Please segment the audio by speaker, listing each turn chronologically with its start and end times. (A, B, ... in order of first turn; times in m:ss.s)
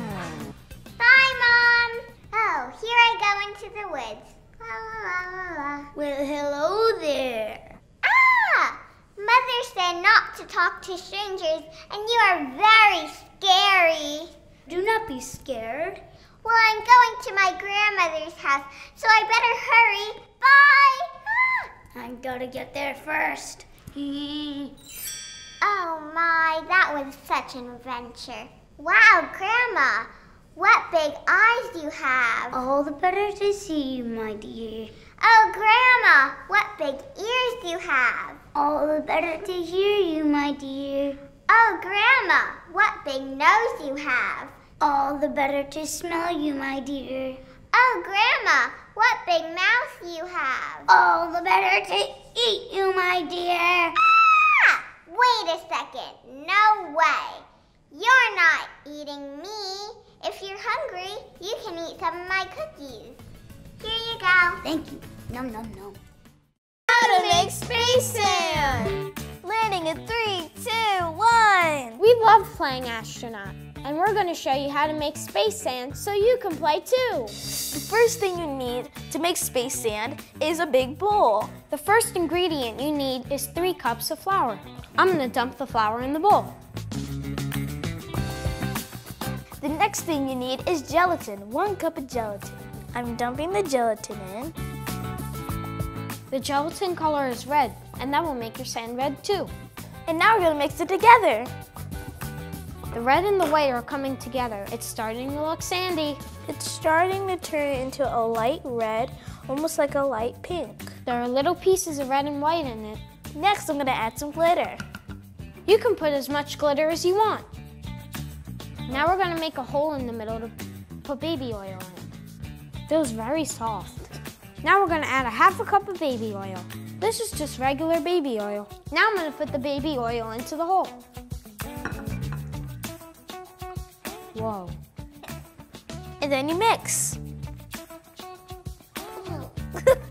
0:01.0-0:05.9 A
0:06.0-0:07.7 B
0:08.0-0:14.3 A
0:14.7-0:16.0 B
0:16.4-0:21.7 A
0:22.0-0:24.8 B
0:25.6-0:32.6 A
0:32.5-0:34.9 B
0:35.2-0:38.4 A
0:38.6-0:41.2 B
0:41.5-0:44.5 A
0:44.8-0:47.4 B
0:47.7-0:50.9 A
0:50.9-0:54.0 B
0:54.4-1:03.2 A
1:03.8-1:04.6 A
1:04.6-1:06.0 B
1:06.9-1:12.0 C
1:12.0-1:17.4 D
1:17.7-1:21.6 C
1:21.7-1:26.6 D
1:29.6-1:34.6 C
1:36.3-1:39.5 D
1:40.1-1:41.5 C
1:42.9-1:46.2 D
1:46.5-1:51.0 C
1:51.0-1:53.0 D
1:53.3-1:54.8 C
1:55.7-1:57.5 D
1:58.9-2:02.1 D
2:02.9-2:11.0 D
2:14.3-2:14.8 D
2:16.2-2:17.2 C
2:19.2-2:19.5 A